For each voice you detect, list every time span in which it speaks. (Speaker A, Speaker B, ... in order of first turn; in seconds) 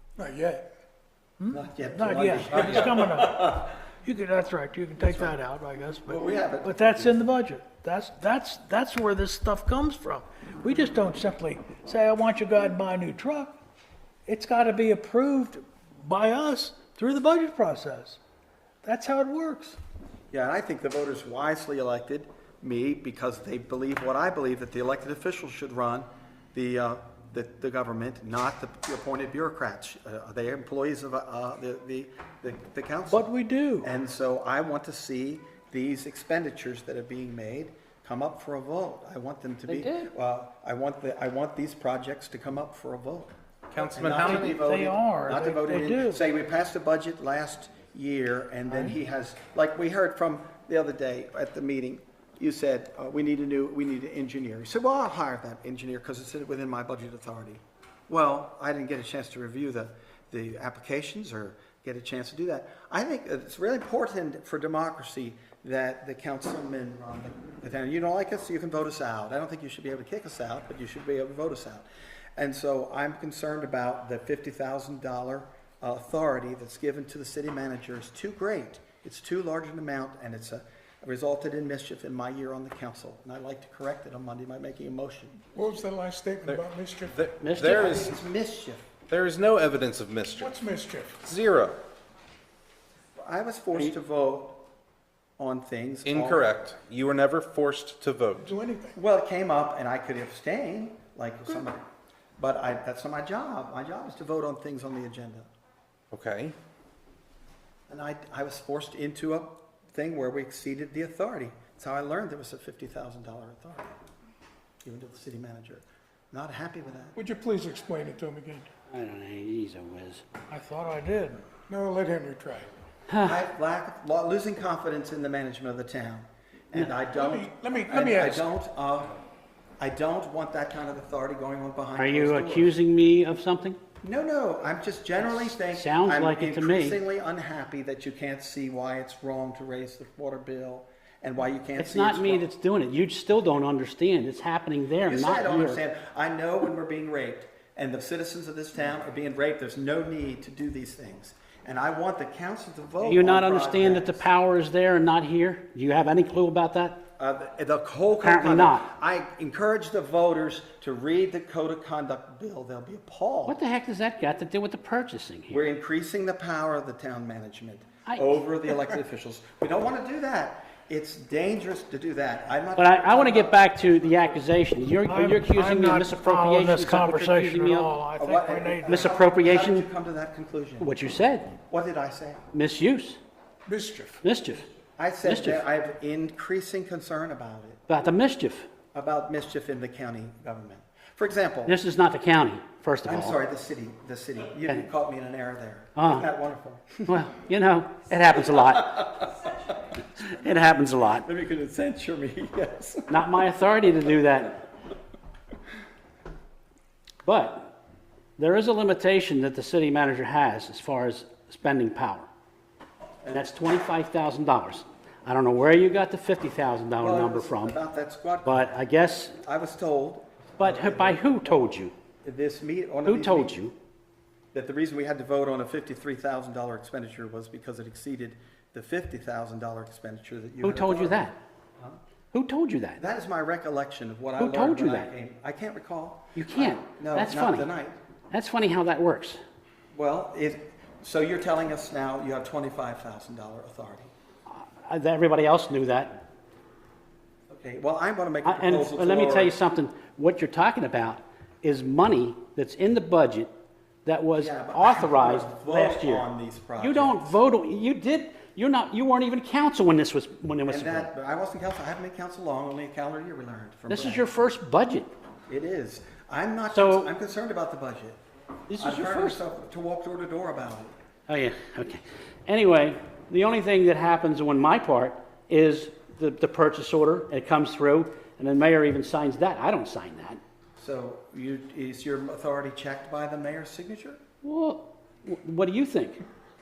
Speaker A: 0.1-0.7, 85.5-87.1, 90.4-91.2, 98.4-99.0, 117.2-118.7, 121.7-122.7, 127.1-128.5, 183.7-184.2
Speaker B: 1.4-13.6, 14.2-18.2, 18.8-19.8, 33.1-33.9, 44.1-46.2, 120.5-121.4, 175.1-179.2
Speaker C: 1.5-3.6, 5.0-5.3, 6.0-7.2, 20.3-33.3, 33.8-43.3, 43.9-85.5, 87.6-88.9, 93.2-94.6, 95.4-96.5, 98.9-101.8, 102.4-105.5, 107.9-113.9, 114.8-117.2, 123.2-129.2, 129.8-132.8, 134.0-142.4, 145.0-154.2, 157.2-163.6, 165.5-174.2, 178.2-180.9, 181.7-182.4, 185.0-187.8, 188.9-191.8, 193.0-197.2, 201.2-203.4, 217.0-218.7, 219.4-221.7, 222.2-223.6, 224.5-232.0, 233.0-238.0, 239.9-244.1, 247.5-249.5, 254.3-257.4, 260.6-264.2, 265.5-268.2, 268.8-270.9, 280.8-284.2
Speaker D: 39.7-40.1, 87.4-88.1, 118.9-120.2, 123.1-123.4, 131.9-133.8, 135.2-137.0, 141.8-145.8, 153.0-157.0, 158.2-158.9, 163.4-165.6, 168.1-168.4, 172.8-177.9, 178.8-179.9, 180.8-181.5, 182.5-183.2, 184.2-184.7, 185.2-185.6, 187.9-188.7, 191.7-193.4, 196.0-196.3, 197.1-199.3, 200.2-201.2, 203.1-204.6, 207.2-207.7, 208.4-212.3, 213.3-217.8, 218.4-219.4, 220.6-221.9, 223.1-223.7, 230.6-231.3, 232.3-233.0, 234.4-235.1, 236.3-237.7, 238.3-239.4, 244.5-246.2, 248.4-253.5, 254.1-261.1, 263.9-265.1, 266.7-267.1, 268.7-269.4, 271.3-280.4, 284.4-286.2
Speaker E: 43.7-44.5, 86.4-88.1, 89.1-90.5, 91.2-91.8, 96.0-98.5, 106.1-106.5